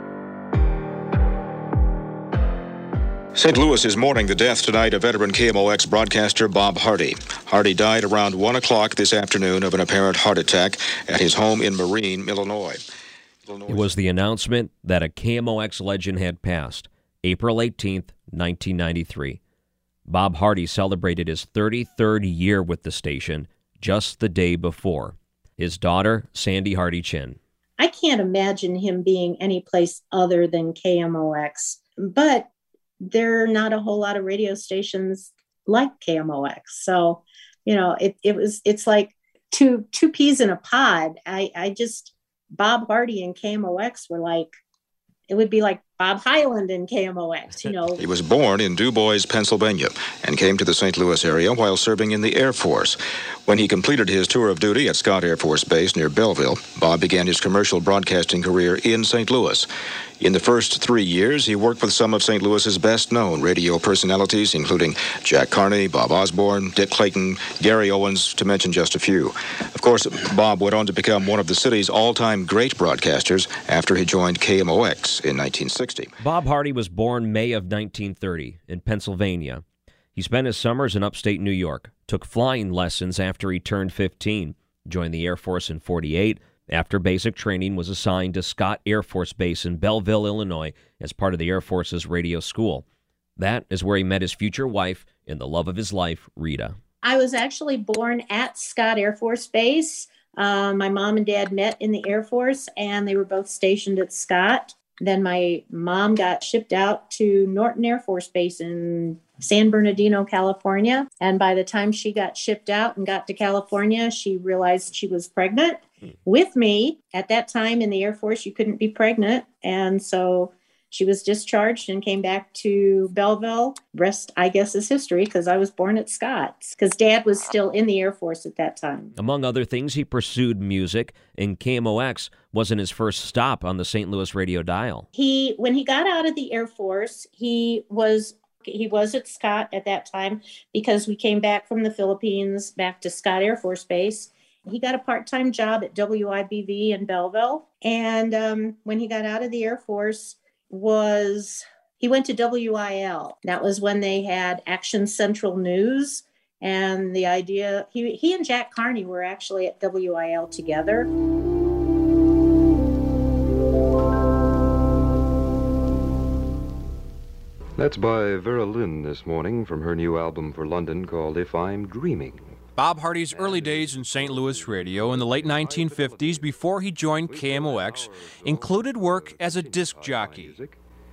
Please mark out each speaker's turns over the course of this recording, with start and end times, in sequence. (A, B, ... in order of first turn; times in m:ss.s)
0:03.3-0:12.8 A
0:13.4-0:13.9 A
0:13.7-0:19.4 B
0:20.1-0:27.4 B
0:27.8-0:32.5 C
0:33.0-0:44.5 C
0:45.3-0:48.0 C
0:48.0-0:59.7 A
1:00.2-1:16.1 A
1:16.2-1:19.6 B
1:20.1-1:32.8 B
1:33.4-1:36.8 B
1:37.0-2:09.1 C
2:09.2-2:15.0 B
2:15.1-2:41.1 C
2:47.8-2:52.5 D
2:52.8-3:00.6 E
2:53.3-2:56.5 D
2:57.3-3:00.7 D